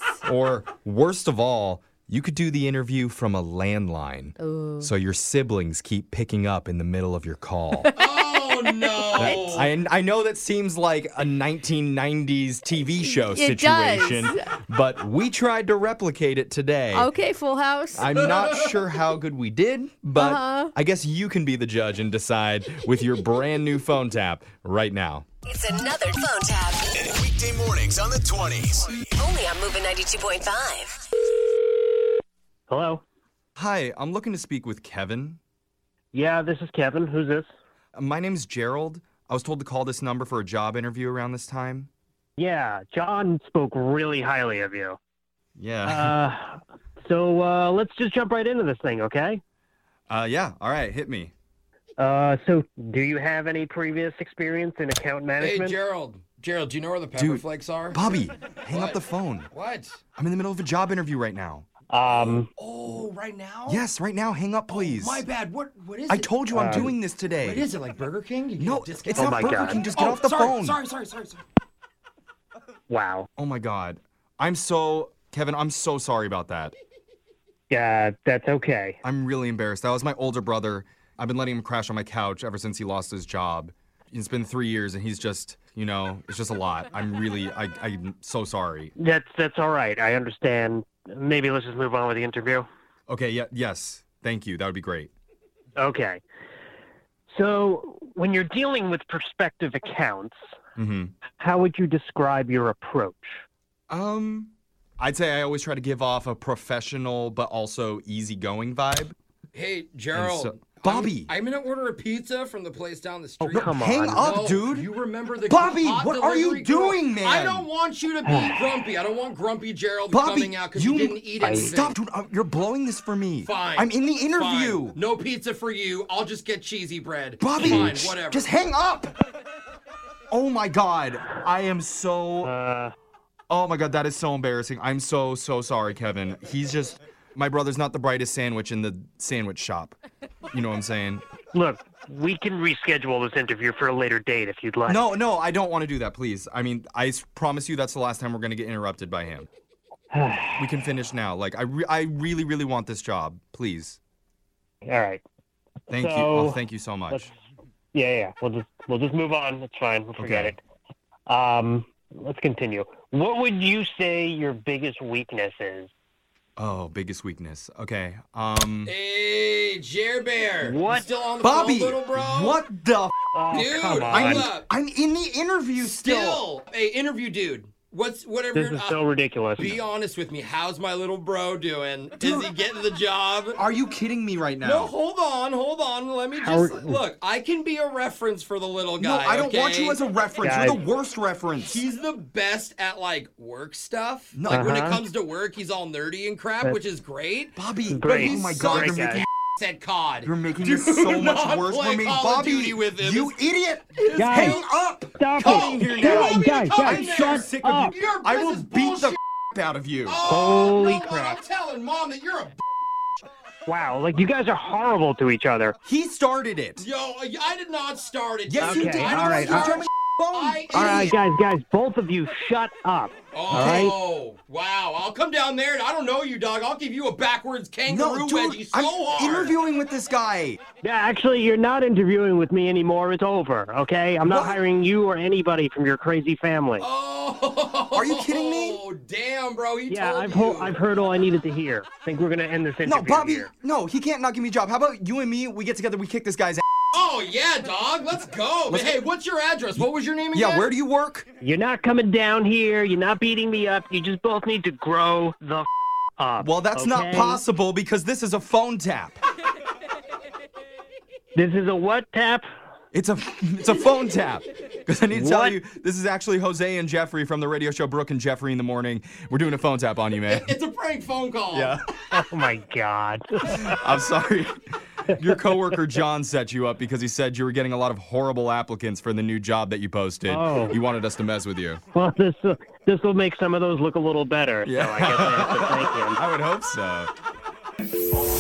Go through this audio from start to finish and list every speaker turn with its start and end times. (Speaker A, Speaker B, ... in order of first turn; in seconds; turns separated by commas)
Speaker A: 0.2-7.9, Speaker B: 4.4-4.8, Speaker C: 8.0-9.7, Speaker A: 9.2-17.1, Speaker B: 13.1-14.4, Speaker B: 16.9-18.1, Speaker A: 17.9-25.3, Speaker C: 18.2-18.8, Speaker B: 20.2-20.7, Speaker D: 25.5-27.1, Speaker E: 27.0-29.1, Speaker D: 29.1-31.0, Speaker F: 32.7-33.0, Speaker A: 33.6-35.4, Speaker F: 36.1-37.5, Speaker A: 38.0-41.9, Speaker F: 42.4-45.0, Speaker A: 45.6-46.1, Speaker F: 45.9-49.4, Speaker A: 50.1-51.3, Speaker F: 52.0-55.8, Speaker C: 55.4-59.0, Speaker A: 57.1-59.5, Speaker C: 59.5-60.0, Speaker A: 60.2-61.7, Speaker F: 61.9-62.5, Speaker C: 62.1-63.8, Speaker A: 63.7-65.2, Speaker C: 64.7-71.4, Speaker A: 66.1-67.7, Speaker F: 66.5-66.9, Speaker A: 68.6-70.8, Speaker F: 69.2-69.8, Speaker F: 72.9-73.3, Speaker A: 73.4-76.8, Speaker F: 77.7-79.0, Speaker A: 79.0-88.9, Speaker F: 89.0-92.7, Speaker A: 93.1-95.1, Speaker F: 95.8-96.2, Speaker F: 97.3-100.4, Speaker A: 100.8-101.1, Speaker F: 101.3-103.4, Speaker A: 103.9-109.2, Speaker C: 109.5-122.0, Speaker A: 110.2-111.3, Speaker F: 113.4-114.3, Speaker A: 113.5-114.9, Speaker A: 115.5-117.7, Speaker F: 118.2-118.7, Speaker A: 120.1-125.0, Speaker F: 121.4-121.8, Speaker C: 123.4-128.5, Speaker A: 127.4-129.2, Speaker A: 130.3-132.5, Speaker F: 132.4-132.9, Speaker A: 133.5-139.9, Speaker A: 140.5-141.2, Speaker F: 141.5-145.1, Speaker A: 144.9-149.5, Speaker F: 150.1-150.7, Speaker A: 150.6-154.0, Speaker F: 154.8-155.2, Speaker A: 155.9-157.3, Speaker F: 156.0-157.3, Speaker F: 157.9-160.6, Speaker A: 160.2-160.6, Speaker F: 161.3-165.9, Speaker A: 166.6-168.9, Speaker C: 168.8-172.6, Speaker F: 170.6-171.1, Speaker A: 171.4-173.1, Speaker F: 173.3-174.5, Speaker C: 173.5-174.7, Speaker A: 174.1-176.4, Speaker C: 175.8-179.0, Speaker F: 178.6-179.8, Speaker C: 179.6-183.6, Speaker A: 182.2-182.5, Speaker A: 183.6-184.9, Speaker C: 184.6-190.0, Speaker F: 186.4-187.0, Speaker A: 189.0-191.8, Speaker F: 190.4-190.8, Speaker C: 191.7-197.6, Speaker A: 194.3-194.7, Speaker F: 194.5-195.0, Speaker A: 197.6-199.3, Speaker F: 197.9-199.2, Speaker C: 198.1-199.0, Speaker C: 199.6-203.4, Speaker A: 200.2-210.2, Speaker C: 204.0-204.7, Speaker F: 204.2-204.6, Speaker F: 205.2-207.9, Speaker C: 205.4-209.2, Speaker C: 210.1-212.6, Speaker F: 210.3-211.4, Speaker F: 213.7-215.8, Speaker A: 215.9-216.9, Speaker C: 216.8-221.2, Speaker A: 218.5-221.2, Speaker F: 218.6-219.8, Speaker F: 220.7-223.9, Speaker C: 223.3-229.6, Speaker A: 223.5-223.9, Speaker A: 227.9-230.6, Speaker F: 230.8-236.9, Speaker A: 234.2-234.6, Speaker C: 236.8-240.8, Speaker A: 237.9-238.8, Speaker F: 239.9-243.5, Speaker A: 242.8-246.6, Speaker C: 246.9-250.7, Speaker A: 248.7-249.0, Speaker A: 250.3-251.3, Speaker F: 251.4-255.7, Speaker F: 256.2-257.4, Speaker A: 256.4-259.2, Speaker F: 261.4-262.5, Speaker A: 262.9-270.5, Speaker F: 265.1-265.6, Speaker C: 270.3-271.8, Speaker A: 271.5-271.8, Speaker F: 272.1-273.8, Speaker A: 273.5-281.8, Speaker F: 280.3-280.8, Speaker F: 281.9-286.2, Speaker A: 284.6-287.1